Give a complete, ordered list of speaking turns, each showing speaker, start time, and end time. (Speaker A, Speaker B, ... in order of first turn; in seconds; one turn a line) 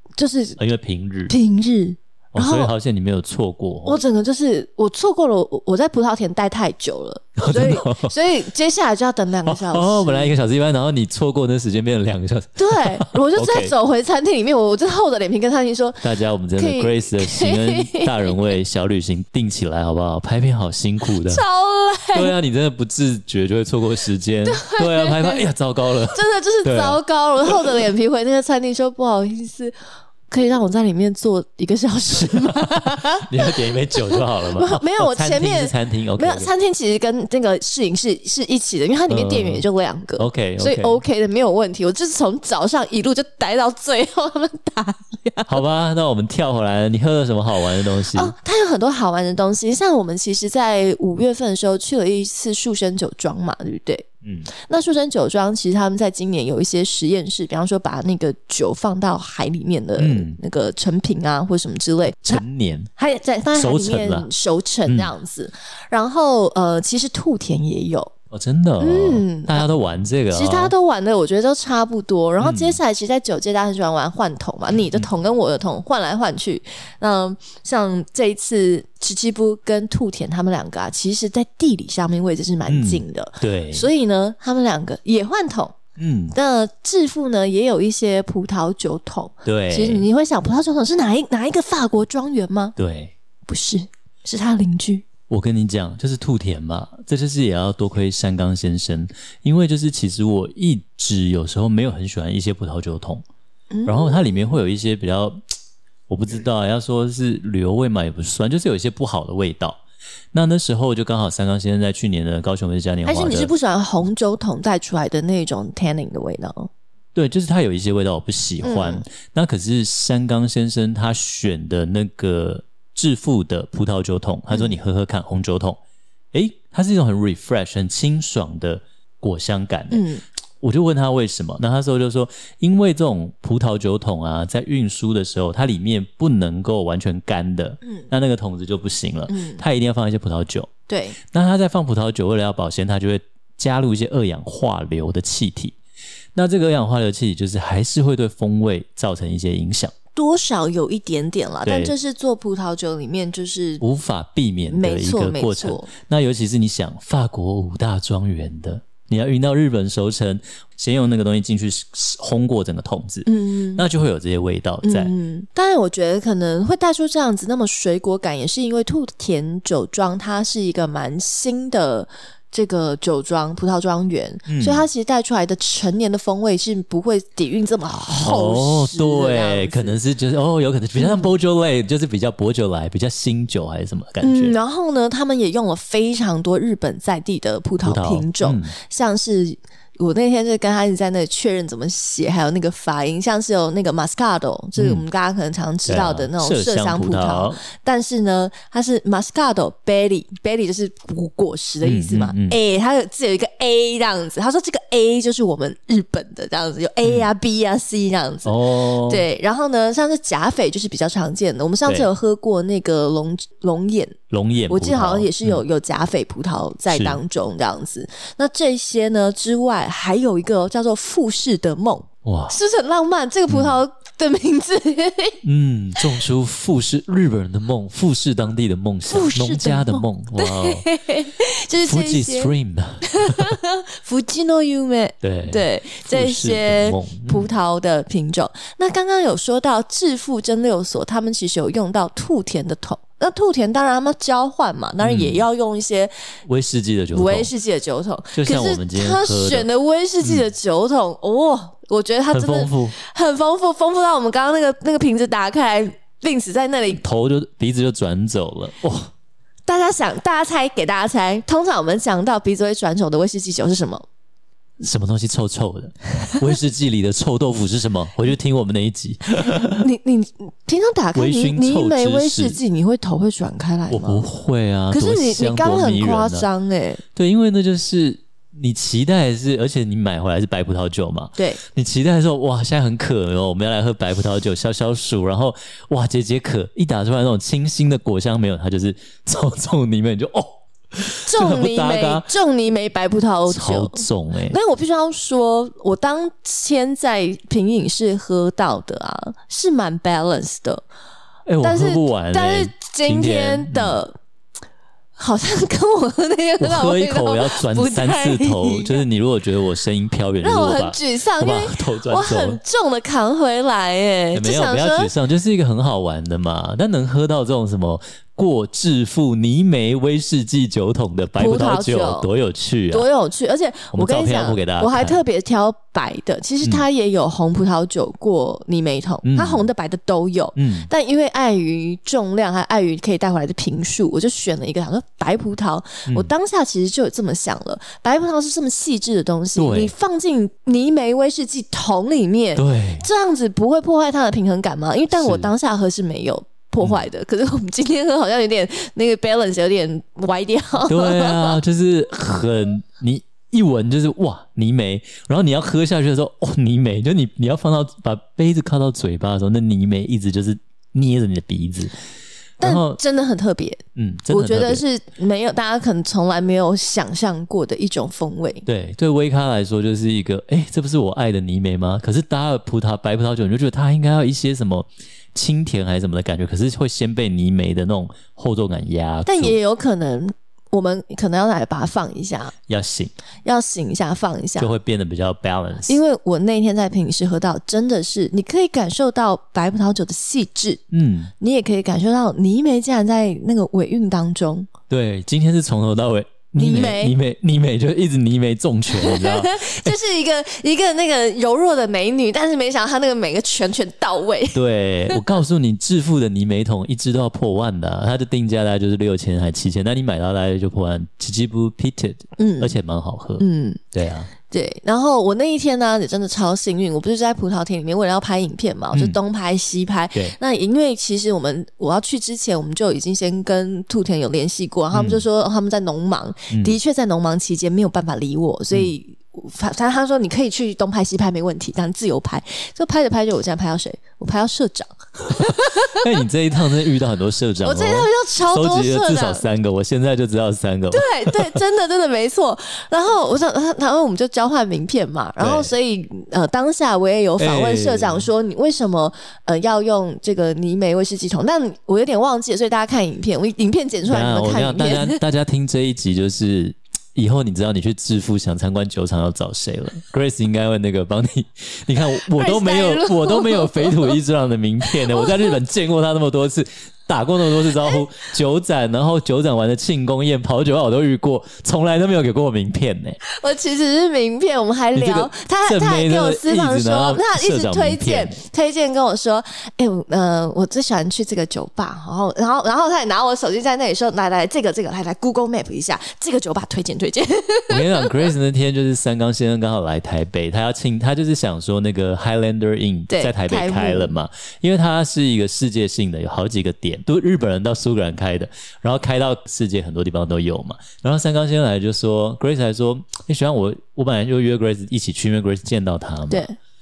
Speaker A: 0.2-0.6
Speaker B: 0.6-1.3
Speaker A: 1.3-2.7
Speaker B: 2.3-4.0
Speaker A: 3.9-10.3
Speaker B: 7.4-8.1
Speaker B: 9.5-13.7
Speaker A: 12.6-18.4
Speaker B: 16.0-21.4
Speaker A: 21.2-22.3
Speaker B: 22.1-27.0
Speaker A: 24.4-25.5
Speaker A: 26.1-29.8
Speaker A: 30.3-45.6
Speaker B: 32.1-36.5
Speaker B: 39.1-39.6
Speaker B: 40.2-41.0
Speaker B: 45.5-48.3
Speaker A: 48.1-62.4
Speaker B: 54.2-54.5
Speaker B: 60.0-60.4
Speaker B: 62.2-62.9
Speaker A: 63.0-68.1
Speaker B: 63.5-64.3
Speaker B: 68.3-70.7
Speaker A: 68.8-69.6
Speaker A: 70.3-85.8
Speaker B: 72.4-72.8
Speaker B: 82.7-83.9
Speaker B: 86.0-86.4
Speaker A: 86.3-92.8
Speaker B: 89.5-90.1
Speaker B: 92.8-93.1
Speaker A: 93.5-95.0
Speaker B: 95.3-103.2
Speaker A: 103.7-104.4
Speaker B: 103.9-105.4
Speaker B: 106.1-109.8
Speaker B: 110.3-113.5
Speaker A: 113.0-116.7
Speaker B: 117.2-125.8
Speaker A: 118.6-119.0
Speaker A: 124.5-124.8
Speaker B: 126.3-130.1
Speaker A: 129.9-130.2
Speaker B: 130.6-140.7
Speaker A: 139.3-139.6
Speaker A: 140.9-141.2
Speaker B: 141.2-145.8
Speaker B: 146.3-149.9
Speaker A: 150.2-153.8
Speaker B: 151.7-151.9
Speaker B: 153.8-165.1
Speaker A: 154.7-155.9
Speaker A: 163.3-163.9
Speaker A: 164.8-180.0
Speaker B: 174.5-174.9
Speaker B: 178.2-184.6
Speaker A: 181.0-181.3
Speaker A: 184.2-214.2
Speaker B: 187.8-188.7
Speaker B: 194.8-195.0
Speaker B: 195.9-197.6
Speaker B: 201.8-202.6
Speaker B: 208.4-209.3
Speaker B: 214.3-215.6
Speaker A: 214.7-225.4
Speaker B: 216.9-217.2
Speaker B: 222.2-222.6
Speaker B: 223.5-223.8
Speaker B: 225.4-230.8
Speaker A: 229.1-232.5
Speaker B: 231.8-233.6
Speaker A: 233.1-246.1
Speaker B: 235.2-237.5
Speaker B: 245.0-245.5
Speaker B: 246.5-247.5
Speaker A: 247.1-257.0
Speaker B: 248.3-249.7
Speaker B: 250.2-250.5
Speaker B: 252.3-253.0
Speaker B: 257.0-259.1
Speaker A: 259.7-264.0
Speaker B: 264.8-269.8
Speaker A: 269.4-274.2
Speaker B: 271.1-272.6
Speaker B: 273.9-276.5
Speaker A: 274.9-277.0
Speaker B: 277.2-292.3
Speaker A: 291.3-300.8
Speaker B: 293.5-294.6
Speaker B: 301.5-304.0
Speaker A: 301.6-304.2
Speaker A: 305.2-309.0
Speaker B: 306.6-312.6
Speaker A: 310.4-315.1
Speaker B: 314.3-323.1
Speaker A: 321.4-322.3
Speaker A: 322.9-351.6
Speaker B: 323.9-325.2
Speaker B: 329.2-329.7
Speaker B: 330.6-330.9
Speaker B: 339.6-339.9
Speaker B: 342.6-343.1
Speaker B: 345.1-345.5
Speaker B: 350.9-362.0
Speaker B: 362.6-363.0
Speaker A: 362.6-368.7
Speaker B: 363.9-364.8
Speaker B: 368.7-379.6
Speaker A: 379.3-382.5
Speaker B: 382.7-383.1
Speaker A: 383.4-384.7
Speaker B: 384.6-386.0
Speaker A: 385.9-390.8
Speaker B: 390.9-391.3
Speaker A: 391.4-394.7
Speaker B: 394.9-400.0
Speaker A: 396.6-397.1
Speaker A: 398.9-405.2
Speaker B: 404.5-414.3
Speaker A: 412.4-412.8
Speaker A: 413.4-413.8
Speaker A: 414.5-436.1
Speaker B: 418.9-419.2
Speaker B: 424.9-425.2
Speaker B: 426.5-426.8
Speaker B: 435.4-441.6
Speaker A: 437.6-439.5
Speaker A: 440.9-455.2
Speaker B: 445.4-445.7
Speaker B: 447.4-448.3
Speaker B: 454.1-473.2
Speaker A: 462.4-464.1
Speaker A: 473.3-488.2
Speaker B: 474.9-478.4
Speaker B: 487.7-506.5
Speaker A: 493.1-494.2
Speaker A: 506.3-506.6